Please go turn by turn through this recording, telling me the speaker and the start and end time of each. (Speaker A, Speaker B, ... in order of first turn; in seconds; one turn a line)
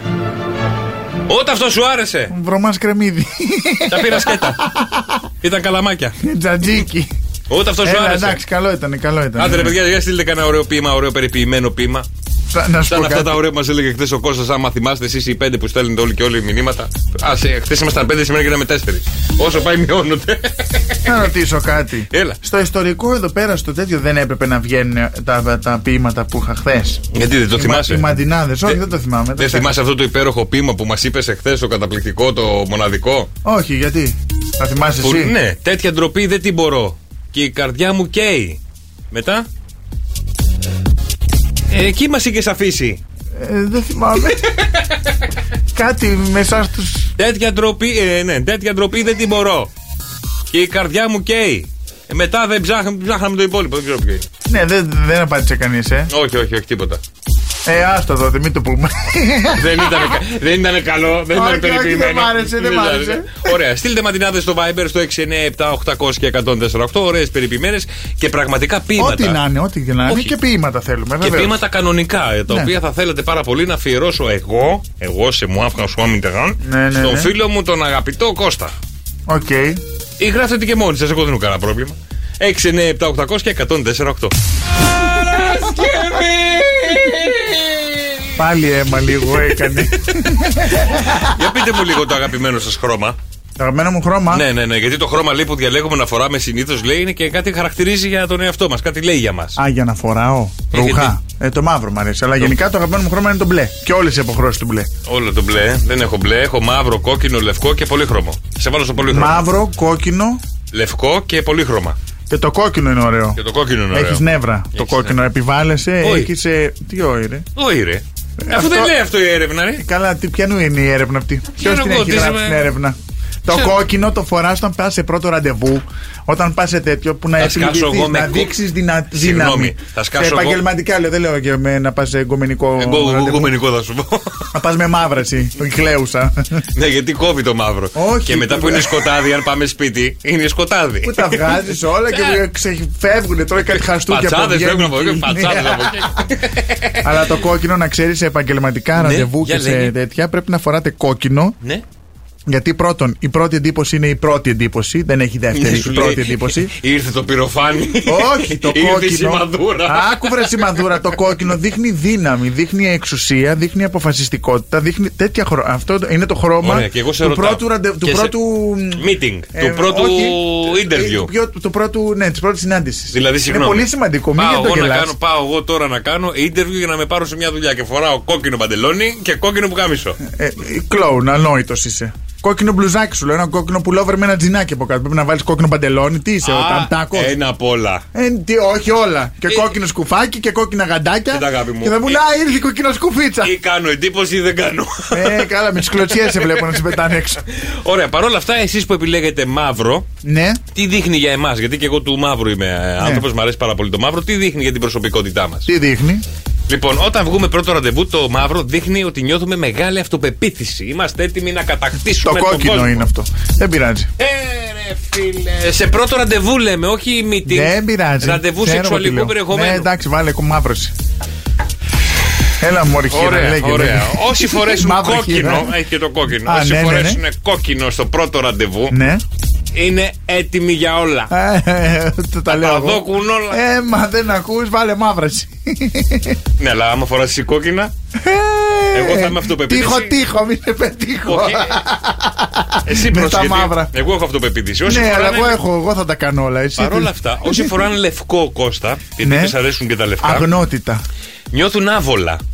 Speaker A: 1.3-2.3
Speaker B: 2.3-5.3
Speaker A: 3.9-4.6
Speaker A: 5.4-6.2
Speaker B: 6.2-7.1
Speaker A: 7.5-8.4
Speaker B: 7.8-9.8
Speaker A: 9.4-12.1
Speaker B: 12.5-13.4
Speaker A: 12.9-21.1
Speaker B: 21.0-29.7
Speaker A: 22.1-22.4
Speaker A: 27.1-28.1
Speaker A: 29.4-33.3
Speaker B: 33.4-35.4
Speaker A: 35.0-38.6
Speaker A: 39.1-39.5
Speaker A: 41.7-43.0
Speaker B: 43.3-44.4
Speaker B: 45.7-47.1
Speaker A: 47.2-49.7
Speaker A: 50.5-54.3
Speaker B: 54.5-56.1
Speaker A: 56.1-57.0
Speaker B: 57.6-60.2
Speaker A: 59.5-69.4
Speaker B: 61.3-63.5
Speaker B: 69.0-71.6
Speaker A: 70.0-70.3
Speaker A: 71.2-78.7
Speaker B: 72.5-72.7
Speaker B: 76.6-77.3
Speaker B: 79.3-79.8
Speaker A: 80.2-84.3
Speaker A: 84.9-88.3
Speaker B: 88.3-91.4
Speaker A: 89.2-89.9
Speaker A: 90.6-93.2
Speaker B: 93.6-94.5
Speaker A: 94.3-99.6
Speaker B: 99.6-104.9
Speaker A: 100.7-101.1
Speaker A: 105.0-109.5
Speaker B: 109.1-110.4
Speaker A: 110.7-112.0
Speaker B: 112.3-117.5
Speaker A: 113.3-115.2
Speaker A: 116.0-116.3
Speaker A: 117.5-119.8
Speaker B: 118.4-118.9
Speaker B: 119.8-133.5
Speaker A: 121.6-122.7
Speaker A: 127.4-128.6
Speaker A: 129.1-130.6
Speaker A: 132.8-134.5
Speaker B: 134.5-136.6
Speaker A: 136.7-142.4
Speaker B: 137.9-139.1
Speaker B: 141.0-146.2
Speaker A: 143.7-147.1
Speaker B: 147.0-151.6
Speaker A: 148.9-149.9
Speaker B: 152.5-156.7
Speaker A: 155.5-160.9
Speaker B: 158.0-175.1
Speaker A: 166.6-168.3
Speaker A: 168.9-171.3
Speaker A: 173.1-180.2
Speaker B: 180.2-187.3
Speaker A: 186.4-188.0
Speaker B: 188.1-193.5
Speaker A: 191.3-192.2
Speaker A: 193.4-200.1
Speaker B: 195.1-197.4
Speaker B: 200.2-200.6
Speaker A: 200.7-205.7
Speaker B: 203.0-203.2
Speaker B: 205.7-206.2
Speaker A: 206.7-213.1
Speaker B: 212.2-214.1
Speaker A: 214.2-219.9
Speaker B: 217.4-220.9
Speaker B: 222.6-225.8
Speaker A: 223.1-228.9
Speaker B: 226.3-227.2
Speaker B: 228.9-229.2
Speaker A: 229.7-231.3
Speaker B: 231.3-236.4
Speaker A: 232.5-233.6
Speaker A: 236.6-237.9
Speaker B: 238.1-243.9
Speaker A: 238.9-240.2
Speaker A: 241.2-241.8
Speaker A: 242.8-245.6
Speaker B: 244.8-247.8
Speaker A: 246.8-250.5
Speaker B: 249.2-249.6
Speaker B: 250.2-251.0
Speaker A: 251.5-252.4